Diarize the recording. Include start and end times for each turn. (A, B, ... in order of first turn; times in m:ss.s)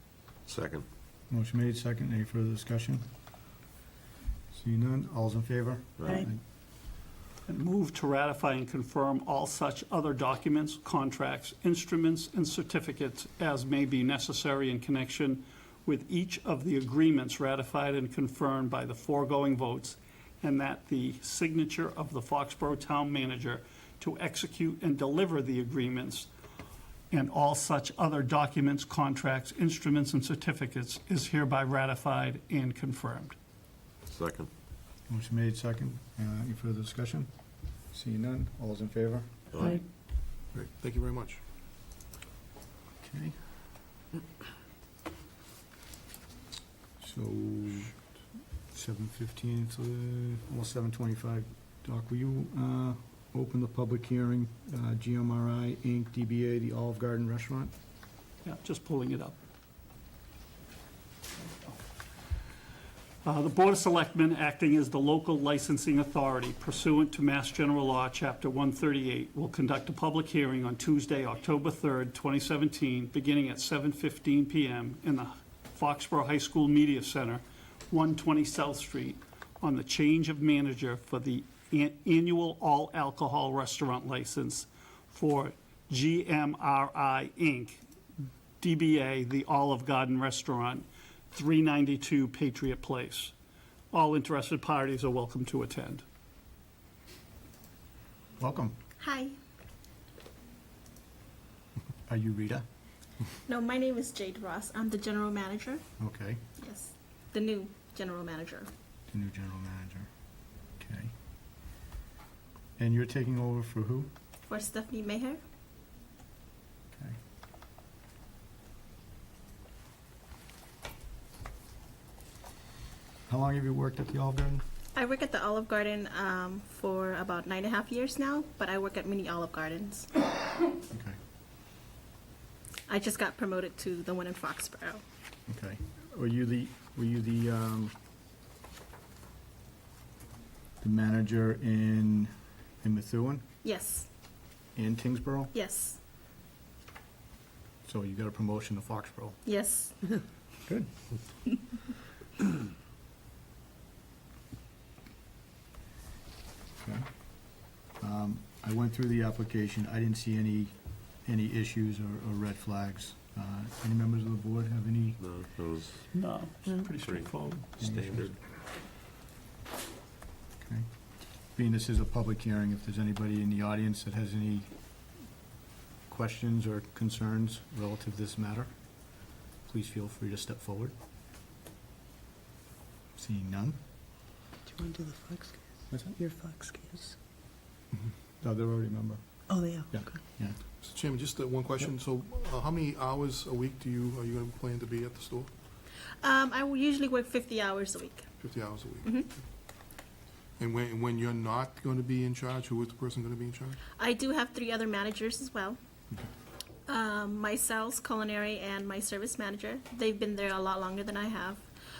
0:00.5-0:00.8 A
0:01.3-0:03.0 B
0:04.5-0:06.4 B
0:07.5-0:26.3 C
0:27.1-0:33.3 C
0:34.0-0:34.5 A
0:35.1-0:37.3 B
0:37.9-0:39.3 B
0:40.5-0:41.4 D
0:43.0-0:43.3 B
0:47.0-0:47.9 B
0:48.7-0:57.7 B
0:58.4-0:59.4 C
1:03.2-1:27.8 C
1:28.6-1:33.3 C
1:33.9-1:36.0 C
1:38.4-1:38.8 B
1:39.0-1:39.3 E
1:42.1-1:42.6 B
1:43.5-1:45.8 E
1:46.0-1:46.4 B
1:46.6-1:48.7 E
1:49.1-1:50.1 B
1:50.8-1:51.1 B
1:52.8-1:54.1 B
1:54.5-1:55.4 E
2:03.3-2:04.6 B
2:05.0-2:10.1 E
2:10.9-2:11.2 B
2:12.9-2:15.0 E
2:15.5-2:17.9 B
2:20.8-2:22.3 B
2:22.8-2:23.4 B
2:23.6-2:24.1 E
2:24.8-2:25.6 B
2:25.5-2:26.0 E
2:27.8-2:29.4 B
2:29.4-2:30.0 E
2:38.0-2:40.7 B
2:41.2-2:45.2 B
2:45.2-2:46.0 A
2:46.1-2:47.7 C
2:46.9-2:48.4 A
2:47.8-2:48.3 B
2:50.6-2:50.9 B
2:51.6-2:54.7 B
2:56.1-2:58.7 B
2:59.7-3:00.9 B
3:03.2-3:03.8 B
3:04.7-3:07.2 F
3:08.4-3:09.2 B
3:09.5-3:10.2 F
3:09.9-3:10.6 B
3:10.8-3:15.5 D
3:16.2-3:18.2 E
3:18.4-3:19.3 D
3:19.0-3:19.3 E
3:20.6-3:23.8 D
3:24.0-3:25.8 E
3:26.9-3:31.6 E